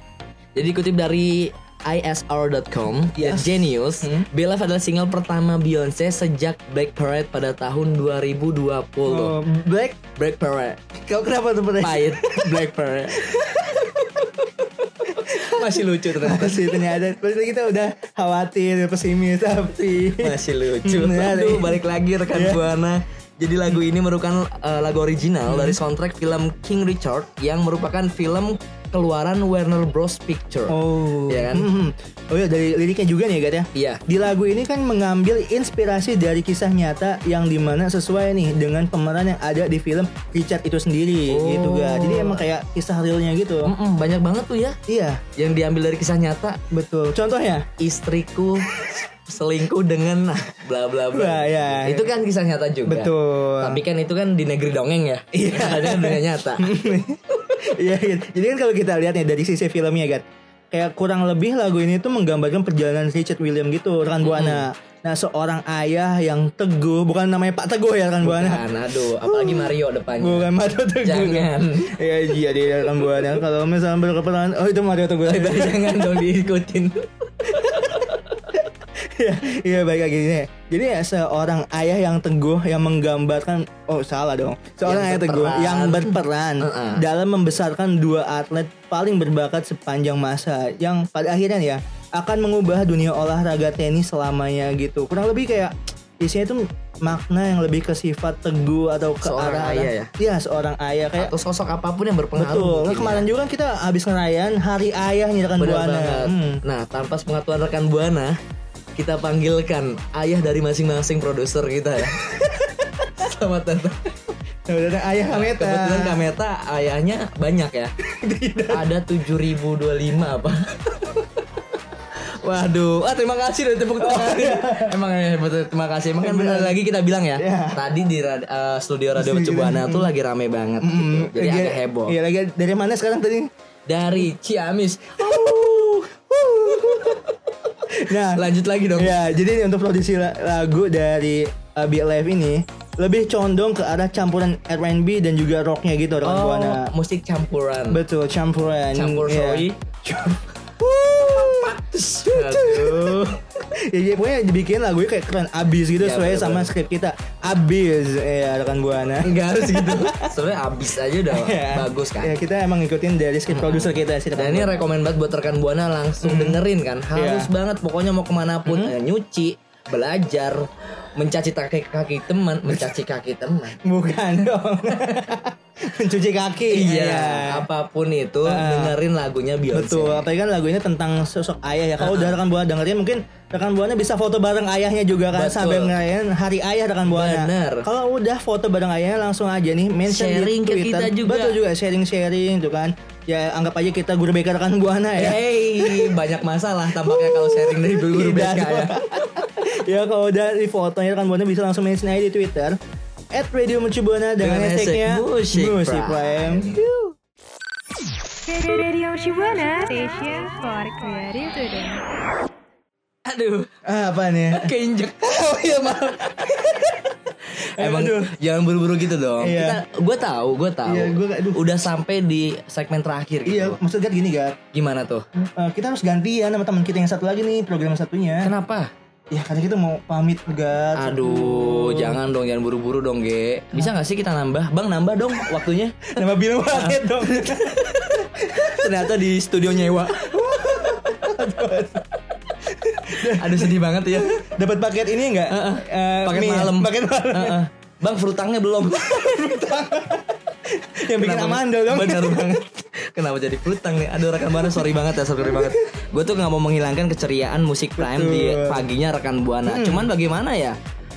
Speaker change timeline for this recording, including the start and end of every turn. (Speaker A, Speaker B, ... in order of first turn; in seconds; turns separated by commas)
Speaker A: 0.5-9.4, Speaker B: 3.2-4.3, Speaker B: 9.1-10.0, Speaker A: 10.2-10.9, Speaker B: 11.1-12.7, Speaker A: 11.8-13.2, Speaker B: 13.2-13.9, Speaker A: 14.2-16.9, Speaker B: 15.3-22.6, Speaker A: 20.2-30.8, Speaker B: 25.5-25.8, Speaker B: 30.7-43.7, Speaker A: 31.3-31.7, Speaker A: 33.7-34.0, Speaker A: 41.3-42.4, Speaker A: 43.6-44.8, Speaker B: 44.9-45.2, Speaker A: 45.4-46.6, Speaker B: 46.7-47.6, Speaker A: 47.8-48.7, Speaker A: 49.2-56.7, Speaker B: 51.1-52.1, Speaker B: 52.9-53.8, Speaker B: 55.3-68.7, Speaker A: 64.2-64.6, Speaker A: 68.2-70.5, Speaker B: 69.2-76.2, Speaker A: 71.0-71.9, Speaker A: 75.3-78.4, Speaker B: 77.7-78.0, Speaker B: 79.2-101.3, Speaker A: 84.8-87.0, Speaker A: 99.2-100.1, Speaker A: 101.2-103.3, Speaker B: 102.3-106.6, Speaker A: 105.6-108.4, Speaker A: 109.0-112.2, Speaker A: 113.1-114.1, Speaker B: 114.7-116.2, Speaker A: 115.3-117.9, Speaker B: 118.0-118.9, Speaker A: 118.7-121.2, Speaker A: 122.4-132.2, Speaker B: 124.0-125.0, Speaker B: 126.2-126.8, Speaker B: 127.3-127.8, Speaker B: 129.1-130.1, Speaker B: 130.8-133.5, Speaker A: 133.9-136.1, Speaker B: 135.2-135.8, Speaker B: 136.3-137.2, Speaker A: 136.6-137.3, Speaker B: 137.9-138.4, Speaker A: 138.1-139.2, Speaker B: 138.9-146.9, Speaker A: 146.2-148.0, Speaker B: 147.9-151.7, Speaker A: 148.9-149.8, Speaker A: 151.1-153.4, Speaker B: 152.3-153.2, Speaker B: 153.9-160.3, Speaker A: 156.0-156.7, Speaker A: 159.2-162.4, Speaker B: 161.3-164.8, Speaker A: 163.5-173.8, Speaker B: 166.2-166.6, Speaker B: 167.1-167.5, Speaker B: 168.7-168.9, Speaker B: 173.8-177.7, Speaker A: 176.7-180.2, Speaker B: 178.4-179.0, Speaker B: 179.7-196.2, Speaker A: 182.0-182.4, Speaker A: 185.3-185.9, Speaker A: 187.1-187.8, Speaker A: 190.0-191.6, Speaker A: 195.2-199.5, Speaker B: 197.0-202.8, Speaker B: 203.3-206.8, Speaker A: 204.4-206.8, Speaker C: 208.5-212.0, Speaker A: 213.2-213.7, Speaker B: 213.8-214.7, Speaker A: 214.5-216.9, Speaker A: 217.7-223.8, Speaker B: 217.8-218.3, Speaker B: 219.4-219.8, Speaker B: 220.8-221.8, Speaker B: 223.4-224.6, Speaker A: 224.7-225.2, Speaker B: 225.4-228.5, Speaker A: 228.4-228.9, Speaker B: 229.3-232.2, Speaker A: 230.9-236.2, Speaker B: 236.2-237.8, Speaker A: 236.7-241.3, Speaker B: 238.4-238.9, Speaker B: 240.2-242.0, Speaker A: 243.0-244.4, Speaker B: 243.1-247.6, Speaker A: 245.5-249.3, Speaker B: 249.1-252.6, Speaker A: 251.1-260.8, Speaker B: 255.4-255.8, Speaker B: 258.0-258.8, Speaker B: 259.6-260.1